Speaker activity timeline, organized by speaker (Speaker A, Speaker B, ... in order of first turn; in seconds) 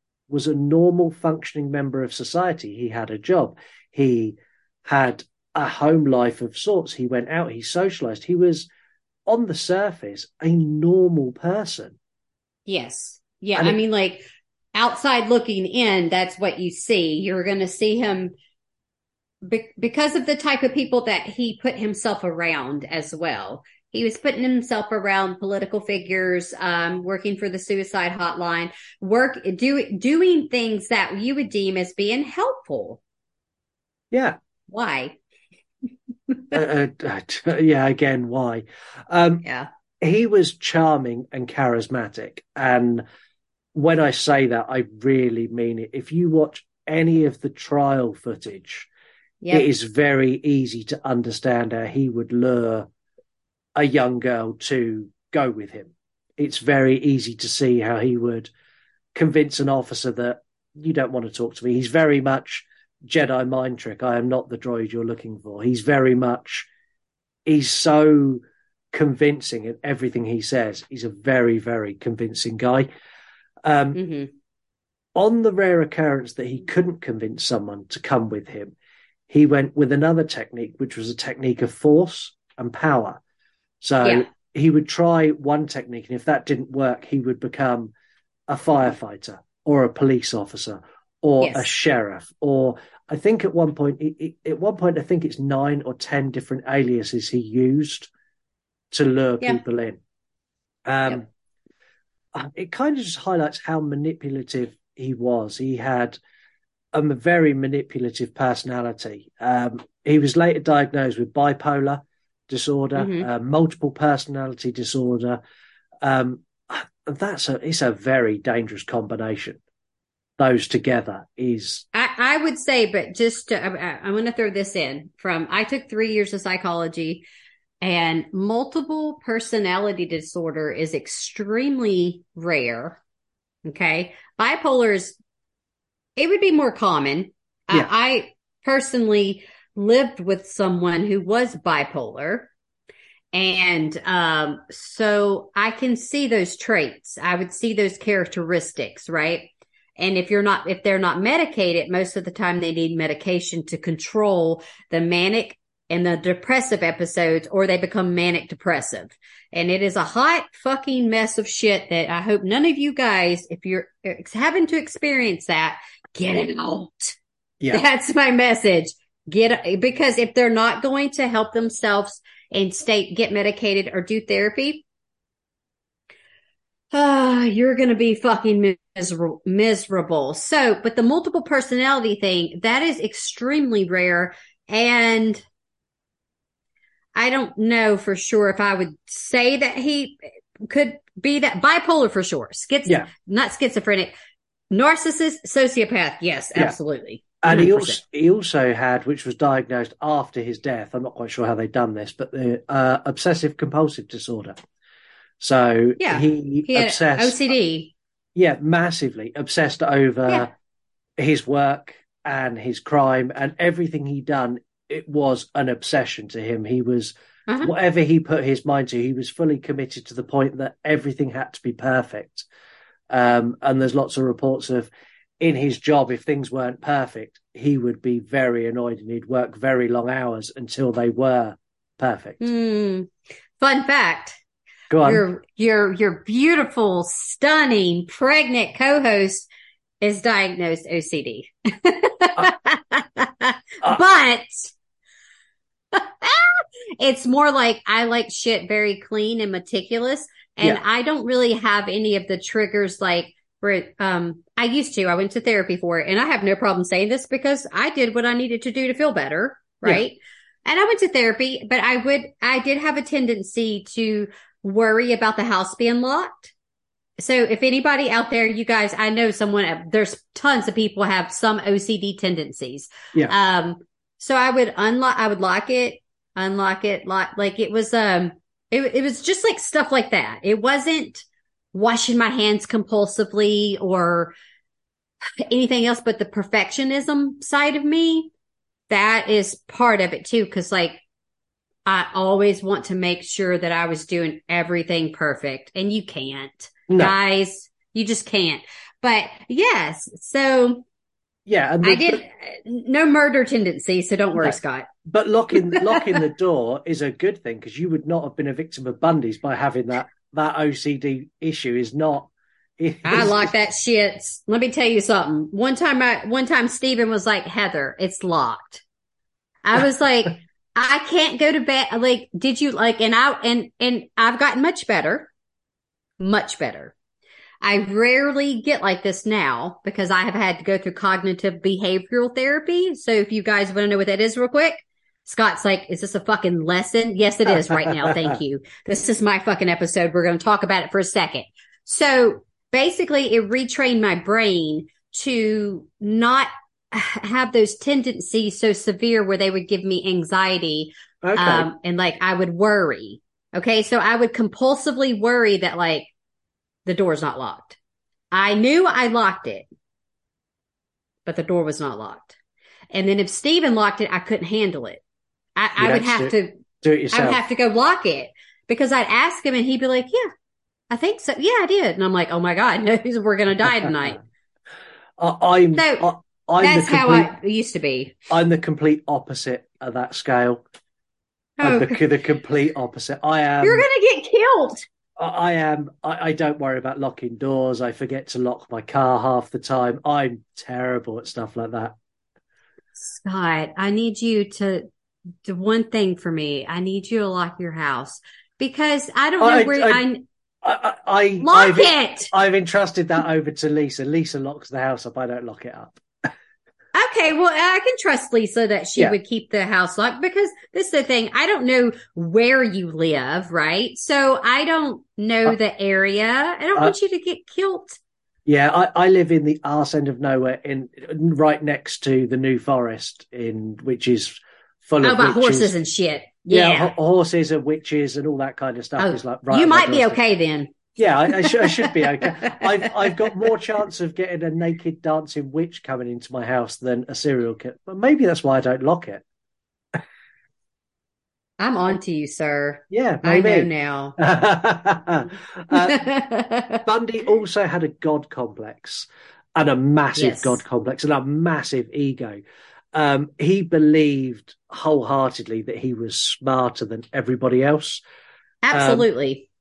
Speaker A: 0.3-8.7, 9.3-11.9, 34.1-34.4, 36.5-39.4, 40.0-43.0, 43.7-48.9, 49.5-52.9, 53.8-58.5, 59.1-66.7, 67.5-72.9, 73.6-74.0, 75.2-78.7, 79.3-83.2, 83.8-87.9, 88.5-98.1, 98.9-100.0, 100.9-101.3, 102.3-106.2, 106.9-115.4, 116.0-119.6, 120.4-121.8, 197.4-204.6, 205.4-207.4, 208.3-210.5, 211.2-222.4, 223.1-224.9, 225.4-232.4, 234.9-235.2, 296.9-297.1, 301.5-302.2, 305.1-313.5, 351.2-351.7, 365.8-367.4, 375.2-377.3, 378.3-380.6, 381.6-383.8, 385.2-391.9, 399.4-400.0, 400.6-406.3, 418.4-425.7, 426.5-430.2, 431.0-439.2, 442.9-446.1, 446.8-452.4, 452.9-458.0, 458.7-459.1
Speaker B: 12.7-14.2, 14.7-18.3, 19.4-33.0, 34.7-35.2, 36.3-36.5, 39.4-39.7, 49.4-49.7, 73.9-74.3, 91.4-91.7, 113.0-113.3, 121.9-127.2, 127.8-133.0, 133.6-135.2, 136.2-142.5, 143.3-167.2, 167.7-174.8, 176.9-185.4, 187.1-194.1, 194.7-198.0, 206.0-207.9, 217.5-217.7, 232.4-234.4, 235.0-239.5, 240.0-244.7, 245.9-266.5, 267.2-284.3, 285.4-288.3, 288.9-291.0, 291.9-300.8, 301.8-304.9, 305.6-306.1, 313.0-318.8, 319.6-325.3, 326.2-326.9, 327.6-356.1, 356.9-357.8, 358.3-359.6, 361.2-362.4, 362.9-365.0, 365.6-366.6, 367.1-370.3, 370.9-374.2, 375.7-378.1, 381.6-382.0, 383.6-384.8, 393.0-394.9, 395.4-400.2, 401.4-402.3, 406.9-418.0, 425.0-426.9, 429.0-430.7, 431.3-432.7, 441.6-444.2, 445.7-446.8, 450.1-450.6, 458.6-459.4